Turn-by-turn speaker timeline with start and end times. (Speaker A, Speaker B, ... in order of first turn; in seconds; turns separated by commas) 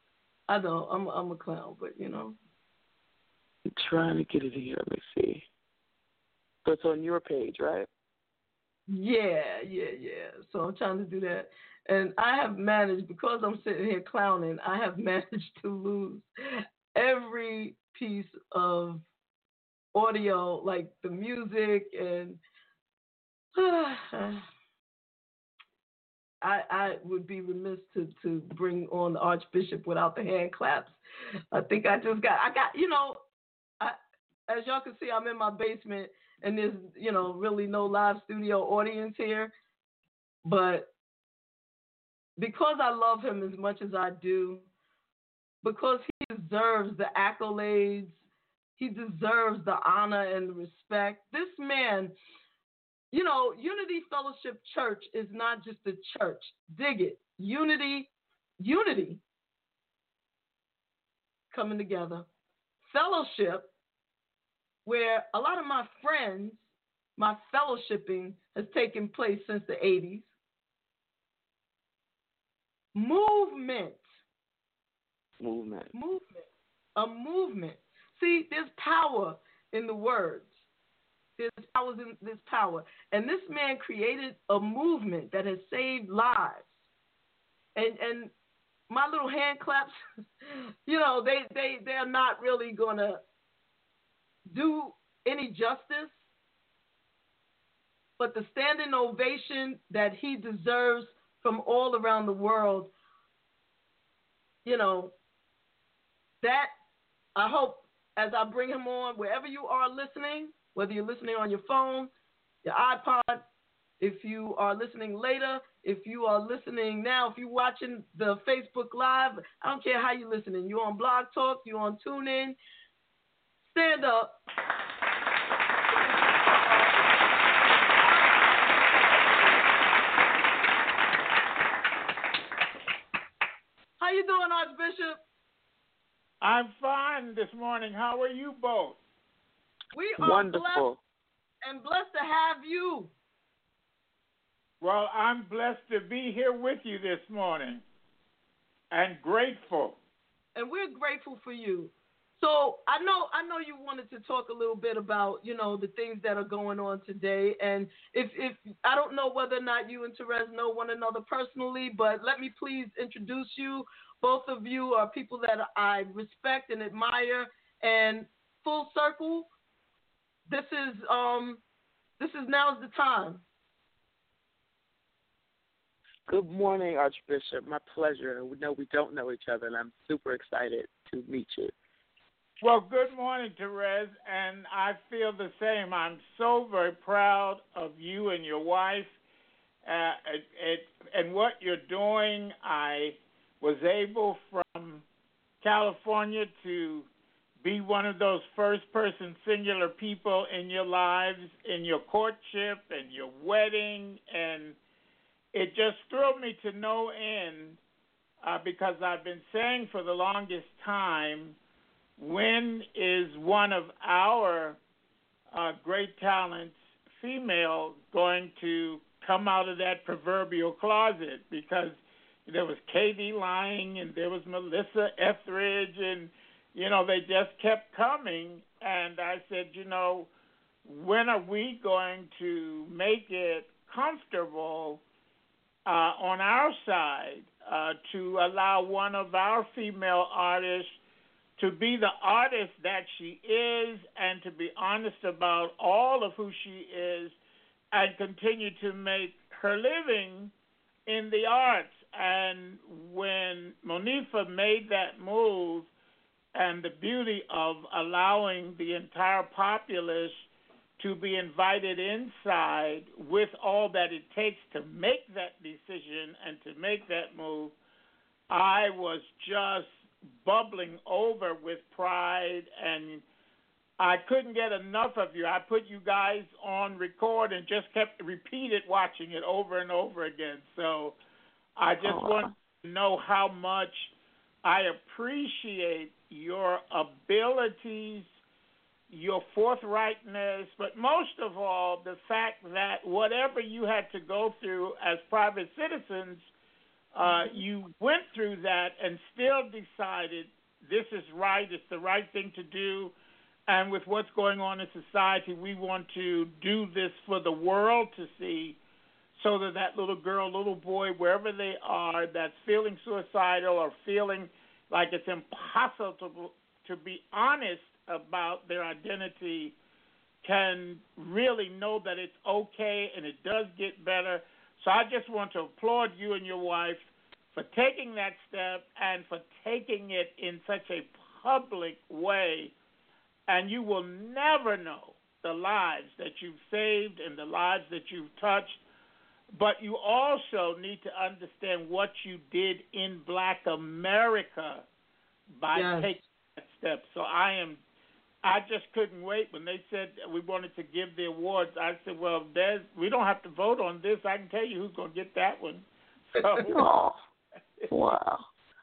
Speaker A: 0.5-2.4, Speaker B: 3.8-5.5, Speaker B: 6.7-7.9, Speaker A: 8.9-16.3, Speaker A: 16.9-19.0, Speaker A: 19.9-22.4, Speaker A: 23.6-24.4, Speaker A: 26.4-31.0, Speaker A: 31.5-33.2, Speaker A: 34.5-39.5, Speaker A: 40.5-40.9, Speaker A: 42.4-44.6, Speaker A: 45.6-48.2, Speaker A: 48.8-52.1, Speaker A: 53.1-58.1, Speaker A: 58.6-59.2, Speaker A: 61.5-62.3, Speaker A: 62.9-63.7, Speaker A: 64.8-66.6, Speaker A: 67.2-70.3, Speaker A: 73.0-74.0, Speaker B: 75.4-75.9, Speaker A: 75.9-80.5, Speaker A: 81.4-86.7, Speaker A: 87.8-88.3, Speaker A: 88.9-90.0, Speaker A: 90.9-93.2, Speaker A: 94.5-96.2, Speaker A: 98.2-102.9, Speaker A: 104.7-105.1, Speaker A: 106.4-106.7, Speaker A: 107.4-112.1, Speaker A: 112.7-113.5, Speaker A: 114.0-122.6, Speaker A: 123.7-124.4, Speaker A: 134.0-135.2, Speaker C: 136.4-139.0, Speaker A: 139.9-140.9, Speaker B: 140.2-141.0, Speaker A: 141.6-143.1, Speaker C: 144.8-147.8, Speaker C: 148.9-150.0, Speaker A: 150.6-169.5, Speaker A: 170.5-171.6, Speaker A: 172.2-173.4, Speaker B: 176.3-181.7, Speaker C: 182.6-189.2, Speaker C: 189.8-195.0, Speaker C: 195.6-197.1, Speaker C: 197.6-204.8, Speaker C: 205.5-207.8, Speaker C: 208.4-211.6, Speaker C: 212.2-214.8, Speaker C: 215.5-230.3, Speaker C: 230.8-235.0, Speaker C: 235.9-241.0, Speaker C: 241.6-247.3, Speaker C: 247.9-250.5, Speaker C: 251.1-255.9, Speaker C: 256.5-260.5, Speaker C: 261.0-267.7, Speaker C: 268.5-273.2, Speaker C: 274.0-281.2, Speaker C: 281.8-284.1, Speaker B: 282.0-282.5, Speaker C: 284.6-288.3, Speaker C: 289.1-296.5, Speaker C: 297.1-303.1, Speaker C: 303.7-308.8, Speaker C: 309.4-319.8, Speaker C: 320.4-332.7, Speaker C: 333.5-338.8, Speaker C: 339.5-344.9, Speaker C: 345.6-347.8, Speaker A: 345.7-346.2, Speaker C: 348.4-356.8, Speaker B: 356.7-357.2, Speaker B: 357.9-358.5